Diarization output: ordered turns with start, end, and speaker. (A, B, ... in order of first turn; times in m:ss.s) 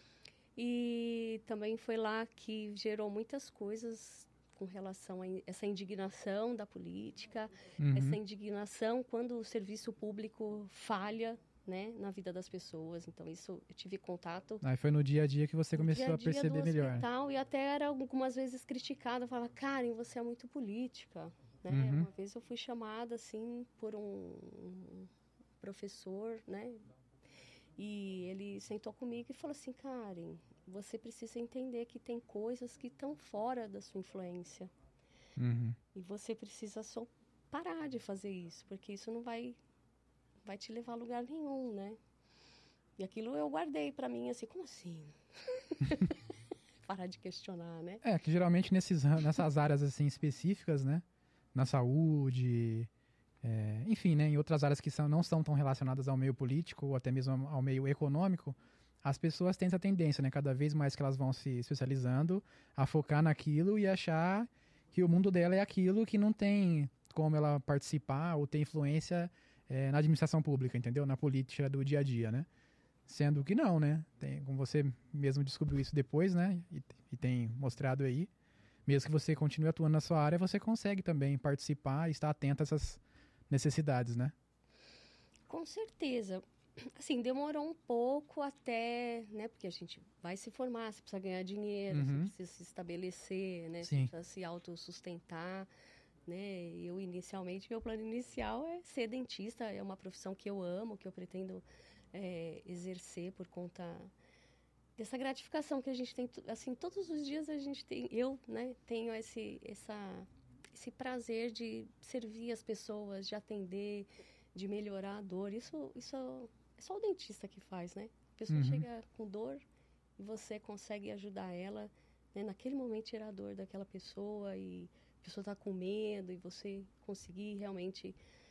0:00.6-0:14.6 A
0:07.8-0:08.2 B
0:14.6-0:17.1 B
0:15.8-0:25.1 A
0:21.7-0:22.1 B
0:25.6-0:26.8 A
0:27.8-0:34.7 A
0:35.4-0:35.8 B
0:35.9-0:39.6 A
0:40.4-0:42.0 A
0:43.0-0:46.1 A
0:46.9-0:48.0 A
0:48.0-0:51.0 B
0:51.6-0:52.9 B
0:53.4-1:12.5 B
1:13.1-1:18.3 B
1:18.9-1:24.3 B
1:25.5-1:26.4 A
1:27.0-1:35.7 A
1:31.9-1:32.3 B
1:33.8-1:34.1 B
1:36.3-1:44.1 A
1:45.0-1:59.6 A
1:58.5-1:58.8 B
2:00.2-2:08.2 A